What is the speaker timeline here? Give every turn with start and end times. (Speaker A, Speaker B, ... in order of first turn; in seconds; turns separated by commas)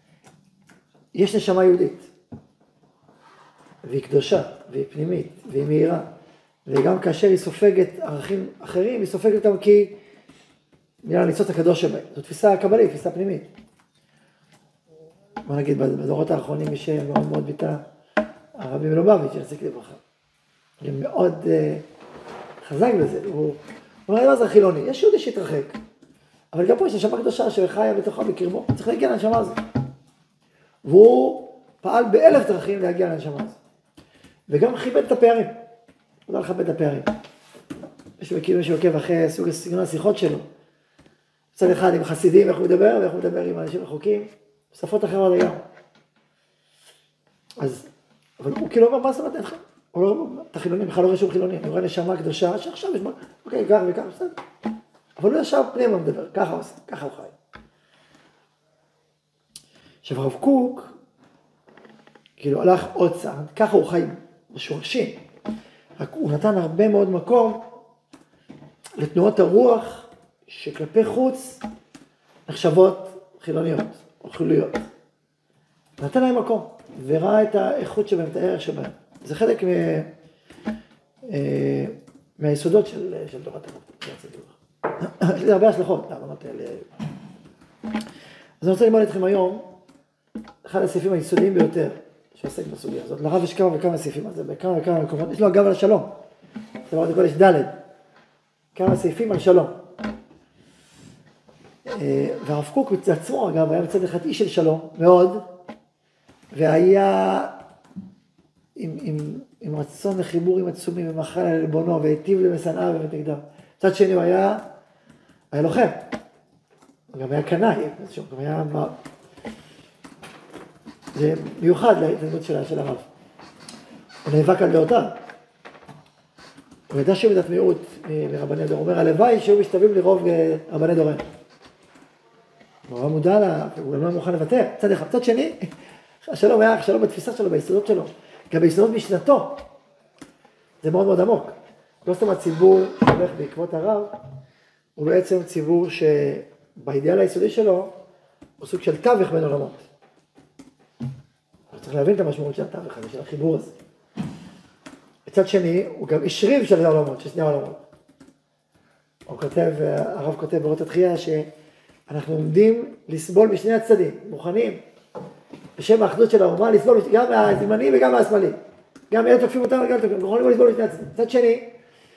Speaker A: 1.1-2.1, Speaker A: 3.8-6.1, Speaker A: 6.7-10.0, Speaker A: 11.0-13.5, Speaker A: 15.4-17.8, Speaker A: 18.6-20.0, Speaker A: 20.8-21.8, Speaker A: 22.6-25.8, Speaker A: 26.5-29.6, Speaker A: 30.9-33.6, Speaker A: 34.5-35.6, Speaker A: 36.3-37.1, Speaker A: 38.2-40.5, Speaker A: 41.6-45.6, Speaker A: 47.6-47.9, Speaker A: 48.4-54.4, Speaker A: 55.2-57.3, Speaker A: 60.0-60.9, Speaker A: 62.4-65.2, Speaker A: 66.0-67.6, Speaker A: 69.0-71.6, Speaker A: 72.5-74.8, Speaker A: 76.0-80.1, Speaker A: 81.3-86.9, Speaker A: 88.6-89.7, Speaker A: 90.6-96.1, Speaker A: 96.9-97.8, Speaker A: 98.8-99.7, Speaker A: 101.9-105.4, Speaker A: 106.5-107.5, Speaker A: 108.8-114.6, Speaker A: 115.5-116.0, Speaker A: 117.1-119.0, Speaker A: 121.1-123.1, Speaker A: 124.2-125.2, Speaker A: 126.9-131.2, Speaker A: 132.9-135.7, Speaker A: 136.3-139.6, Speaker A: 140.8-141.5, Speaker A: 142.1-144.1, Speaker A: 145.0-147.9, Speaker A: 148.6-149.9, Speaker A: 151.7-153.7, Speaker A: 155.3-157.8, Speaker A: 159.3-161.5, Speaker A: 162.1-164.8, Speaker A: 165.8-168.6, Speaker A: 169.1-171.7